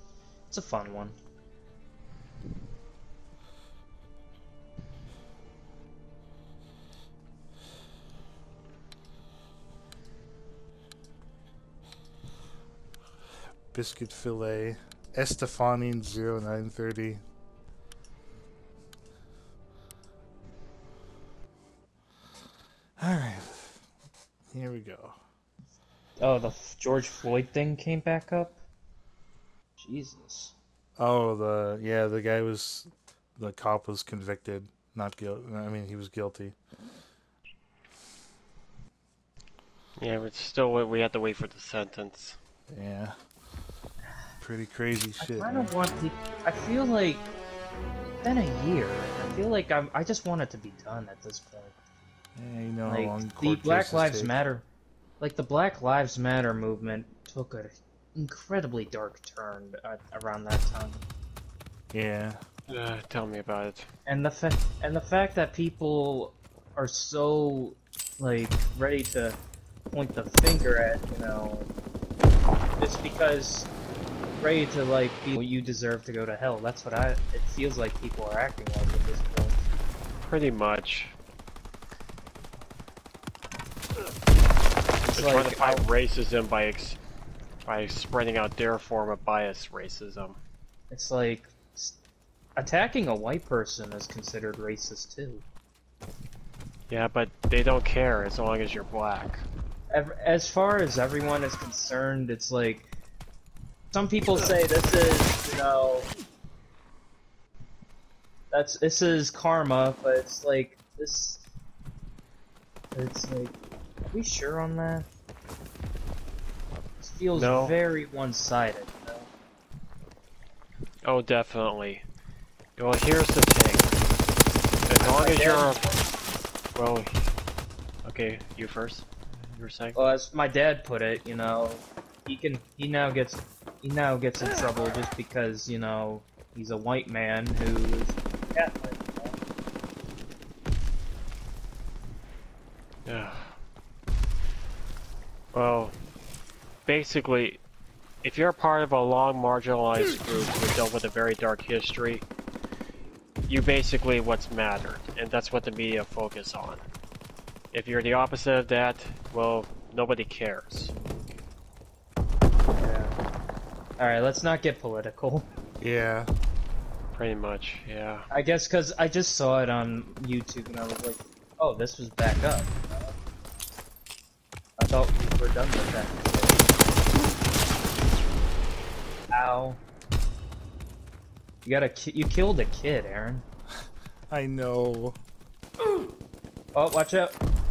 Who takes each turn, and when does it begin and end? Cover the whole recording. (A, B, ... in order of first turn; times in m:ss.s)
0:00.5-0:01.2 A
0:13.7-0:17.2 B
0:23.0-0:23.8 B
0:24.5-0:25.2 B
0:26.2-0:28.6 A
0:29.8-0:30.6 A
0:31.0-0:36.6 B
0:40.0-0:42.4 C
0:42.7-0:43.2 B
0:44.4-0:45.7 B
0:45.2-0:47.3 A
0:48.2-0:51.7 A
0:52.4-0:54.3 B
0:52.9-0:54.6 A
0:55.2-1:01.0 A
1:01.9-1:02.4 B
1:02.7-1:03.9 C
1:04.1-1:09.4 A
1:09.9-1:11.7 A
1:12.8-1:13.7 A
1:14.4-1:19.6 A
1:20.2-1:21.1 C
1:25.1-1:25.8 A
1:25.1-1:27.0 C
1:27.6-1:30.4 C
1:30.9-1:32.0 A
1:32.6-1:35.4 A
1:36.9-1:39.4 C
1:39.9-1:42.9 A
1:43.9-1:46.1 A
1:48.5-1:51.4 A
1:52.9-1:53.6 A
1:54.1-1:55.1 A
1:57.0-1:59.3 A
1:57.3-1:57.8 C
2:01.0-2:02.0 C
2:02.8-2:04.0 C
2:04.9-2:05.9 C
2:05.0-2:05.8 A
2:06.7-2:07.1 C
2:08.0-2:10.0 C
2:10.0-2:19.4 A
2:23.0-2:23.6 C
2:25.5-2:26.0 C
2:26.9-2:27.6 C
2:28.2-2:32.3 C
2:33.5-2:36.8 C
2:37.7-2:40.9 C
2:42.8-2:43.1 A
2:44.0-2:45.5 A
2:45.8-2:46.3 B
2:47.2-2:48.3 C
2:48.3-2:53.1 A
2:54.8-2:56.6 A
2:59.3-2:59.8 A
3:01.6-3:03.4 A
3:04.3-3:05.2 B
3:06.7-3:07.4 A